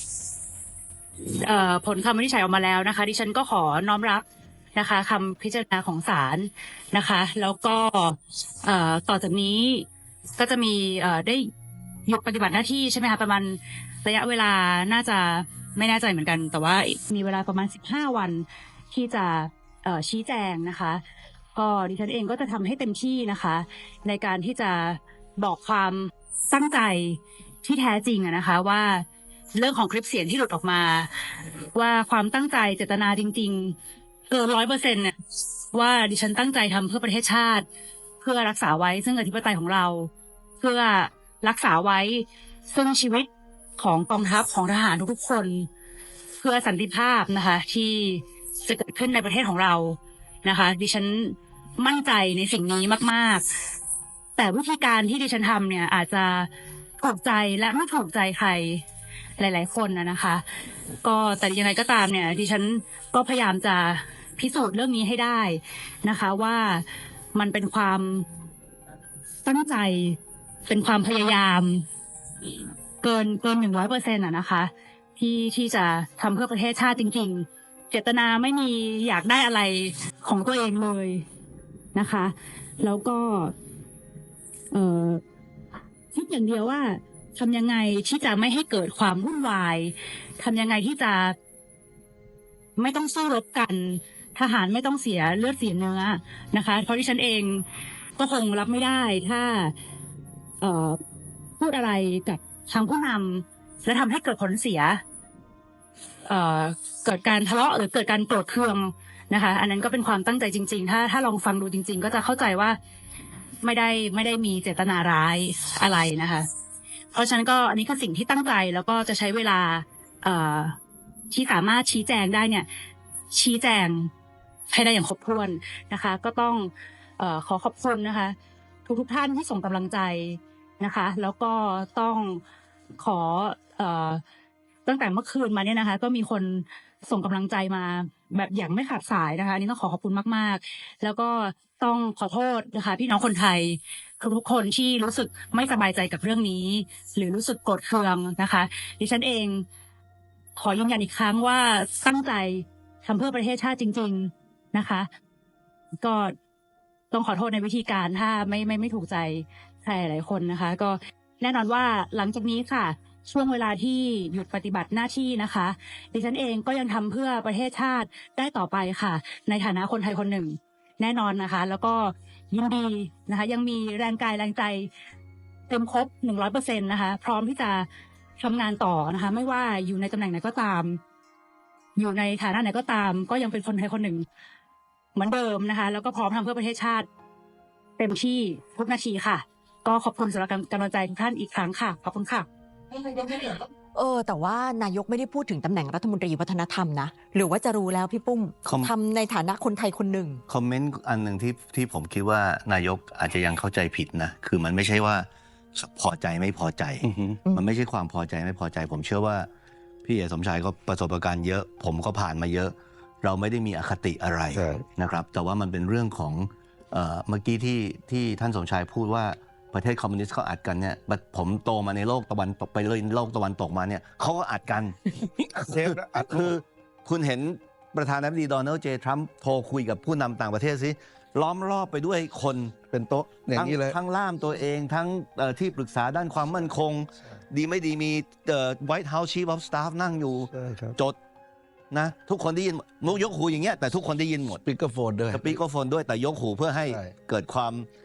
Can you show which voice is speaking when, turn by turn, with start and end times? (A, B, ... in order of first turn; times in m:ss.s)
0:01.3-0:11.5 A
0:12.1-0:21.0 A
0:21.5-0:31.1 A
0:31.7-0:33.8 A
0:34.3-0:35.2 A
0:35.7-0:37.6 A
0:38.2-0:45.7 A
0:46.4-0:53.4 A
0:54.4-0:56.5 A
0:57.0-0:58.8 A
0:59.4-1:00.4 A
1:01.0-1:08.2 A
1:09.4-1:11.8 A
1:13.0-1:21.2 A
1:21.9-1:23.5 A
1:24.7-1:25.2 A
1:26.1-1:31.4 A
1:32.8-1:37.6 A
1:38.2-1:39.7 A
1:40.6-1:41.0 A
1:41.6-1:45.0 A
1:46.3-1:52.8 A
1:53.6-1:56.5 A
1:57.1-2:00.8 A
2:01.3-2:02.7 A
2:03.3-2:04.1 A
2:04.7-2:12.4 A
2:13.0-2:14.2 A
2:14.8-2:29.6 A
2:30.6-2:35.1 A
2:36.0-2:36.4 A
2:37.1-2:54.9 A
2:55.7-2:57.9 A
2:58.4-3:01.0 A
3:02.0-3:04.2 A
3:05.1-3:07.1 A
3:08.0-3:12.5 A
3:12.9-3:20.4 B
3:18.6-3:18.9 C
3:20.5-3:29.5 C
3:27.0-3:27.4 D
3:30.0-4:01.2 C
3:34.5-3:34.8 D
3:45.4-3:46.5 D
3:53.3-3:54.0 D
4:00.5-4:01.0 D
4:01.9-4:04.6 C
4:04.6-4:05.6 D
4:05.3-4:07.9 C
4:06.8-4:07.1 D